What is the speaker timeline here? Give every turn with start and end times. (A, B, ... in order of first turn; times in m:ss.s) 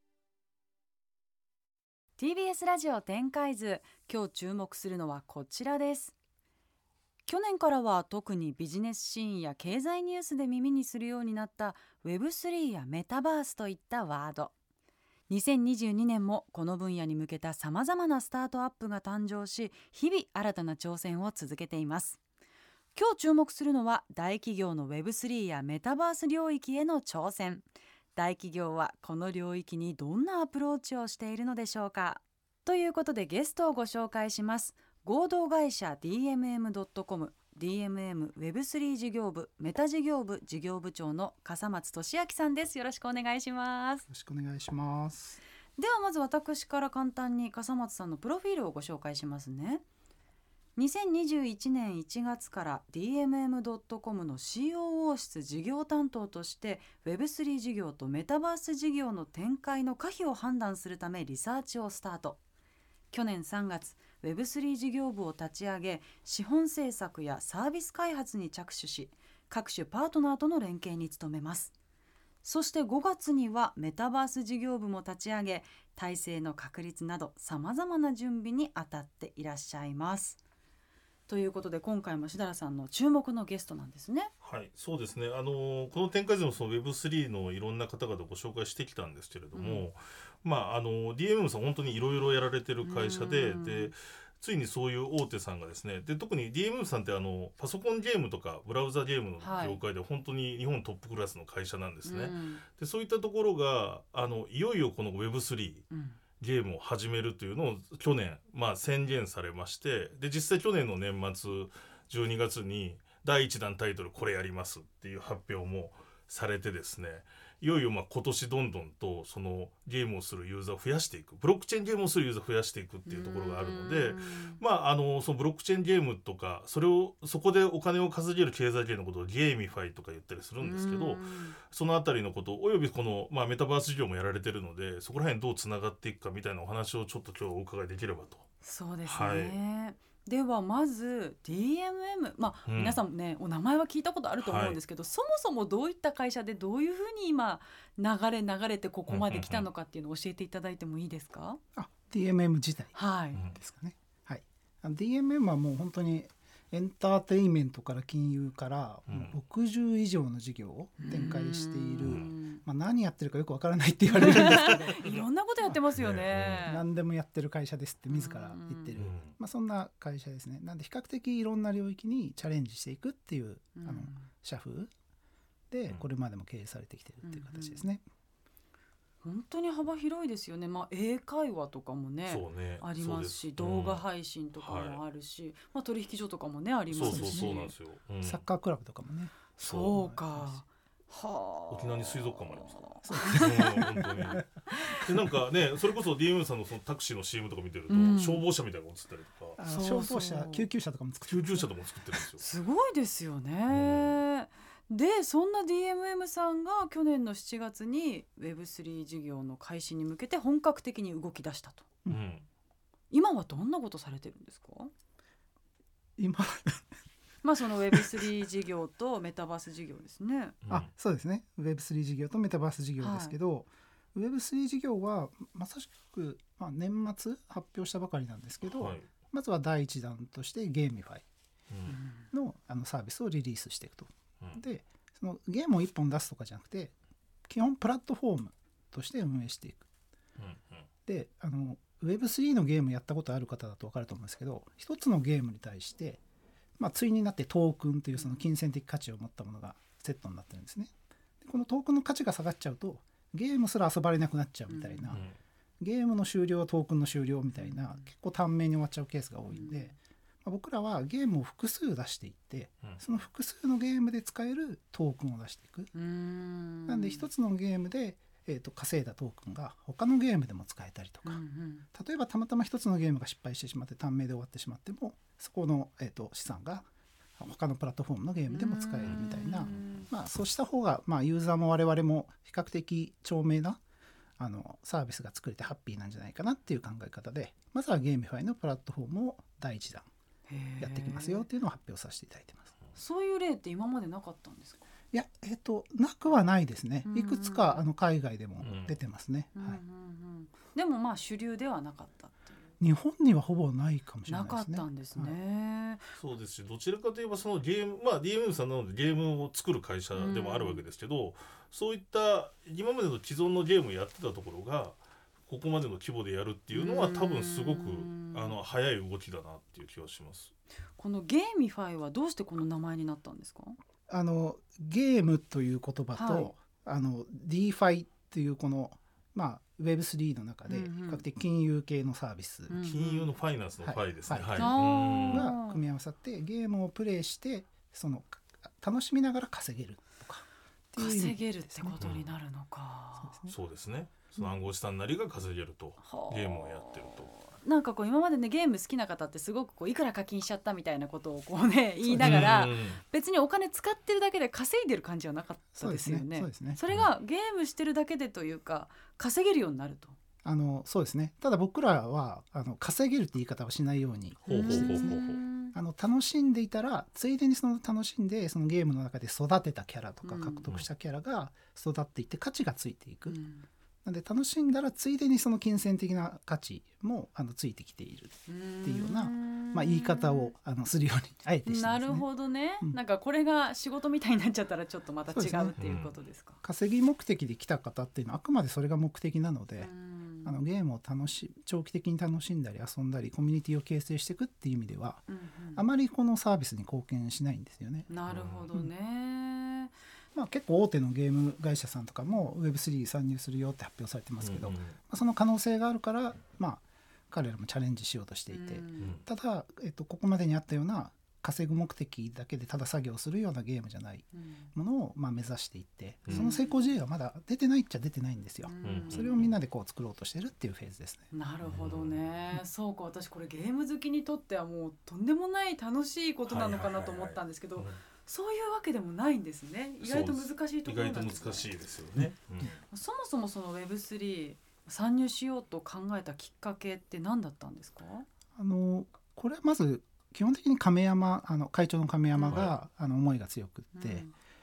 0:02.2-0:06.1 A
0:07.3-0:14.5 A
0:15.3-0:22.2 A
0:23.0-0:44.1 A
0:44.1-0:45.4 B
0:45.8-0:49.8 A
0:50.8-1:02.4 A
1:03.1-1:11.7 A
1:12.4-1:20.4 A
1:21.3-1:24.3 A
1:24.4-1:45.8 C
1:29.5-1:29.8 A
1:32.8-1:33.9 A
1:39.4-1:39.8 A
1:42.0-1:42.6 A
1:45.9-1:46.2 A
1:46.4-2:18.4 C
2:03.1-2:04.6 A
2:10.6-2:11.6 A
2:18.6-2:31.6 A
2:19.0-2:19.6 C
2:22.7-2:23.0 C
2:24.4-2:24.8 C
2:29.1-2:29.7 C
2:31.8-2:33.0 B
2:32.9-2:33.4 A
2:33.5-2:45.1 B
2:39.1-2:39.4 C
2:41.0-2:42.6 A
2:42.0-2:42.3 C
2:44.2-2:46.8 A
2:46.0-2:46.7 C
2:46.6-2:54.9 B
2:48.1-2:48.9 A
2:49.0-2:49.3 C
2:53.8-2:54.3 A
2:55.7-2:58.0 B
2:57.2-2:57.9 A
2:59.2-3:07.7 A
3:02.3-3:04.0 C
3:04.6-3:05.0 C
3:06.9-3:08.4 C
3:07.0-3:07.5 B
3:08.2-3:10.6 B
3:09.6-3:10.0 C
3:09.6-3:13.6 A
3:11.7-3:19.6 C
3:13.0-3:14.4 B
3:14.7-3:15.0 A
3:17.9-3:18.5 A
3:19.6-3:21.7 B
3:19.6-3:20.7 A
3:21.3-3:22.5 C
3:22.4-3:31.9 A
3:23.7-3:24.2 C
3:32.1-3:32.5 C
3:33.1-3:34.9 A
3:36.2-3:36.9 B
3:37.4-3:40.6 A
3:40.6-3:40.9 C
3:40.7-3:51.2 B
3:43.0-3:43.4 A
3:48.6-3:49.1 C
3:51.7-3:52.0 C
3:51.9-3:52.3 A
3:52.3-3:56.9 B
3:57.5-3:59.9 B
4:00.4-4:00.9 C
4:01.1-4:06.2 B
4:06.8-4:15.2 B
4:14.7-4:15.2 A
4:15.1-4:15.4 C
4:15.8-4:25.9 B
4:17.6-4:18.0 A
4:19.5-4:19.9 A
4:25.9-4:27.2 A
4:26.9-4:31.4 B
4:31.2-4:31.8 A
4:31.9-4:36.9 B
4:37.4-4:43.8 B
4:38.5-4:40.1 A
4:44.4-4:50.1 B
4:50.5-4:51.5 A
4:50.8-4:52.7 B
4:52.9-4:54.8 A
4:55.1-4:59.8 B
4:57.0-4:57.8 A
4:58.6-4:59.0 C
4:59.5-5:02.5 A
5:02.8-5:05.4 B
5:04.3-5:06.0 A
5:06.2-5:20.5 C
5:10.1-5:10.8 A
5:16.7-5:18.6 A
5:21.0-5:23.8 A
5:24.1-5:32.9 B
5:26.1-5:26.5 A
5:30.7-5:31.2 A
5:32.7-5:33.3 A
5:32.8-5:35.5 C
5:33.8-5:42.1 B
5:34.6-5:35.8 A
5:41.0-5:43.4 A
5:42.0-5:42.2 C
5:43.2-5:43.5 B
5:43.5-5:47.3 C
5:46.0-6:00.2 A
5:52.0-5:52.6 B
5:52.2-5:53.0 C
5:55.8-5:56.8 B
6:00.4-6:13.4 B
6:04.4-6:05.4 C
6:04.5-6:05.8 A
6:10.2-6:10.6 A
6:13.3-6:13.7 A
6:14.0-6:22.3 B
6:18.5-6:20.5 A
6:21.6-6:26.6 A
6:25.3-6:26.0 B
6:25.8-6:26.1 C
6:26.6-6:29.9 B
6:29.8-6:30.6 A
6:30.4-6:38.1 B
6:35.3-6:35.8 A
6:38.1-6:39.9 A
6:38.2-6:38.7 C
6:40.3-7:01.3 B
6:44.4-6:45.0 C
6:48.5-6:49.1 A
6:54.3-6:54.7 A
6:56.3-6:56.8 A
6:58.6-6:59.3 A
6:58.8-6:59.5 C
7:01.3-7:11.8 A
7:01.6-7:02.2 C
7:06.4-7:08.0 C
7:10.0-7:12.8 C
7:12.6-7:18.2 A
7:18.6-7:24.3 B
7:22.4-7:22.8 C
7:23.9-7:24.3 A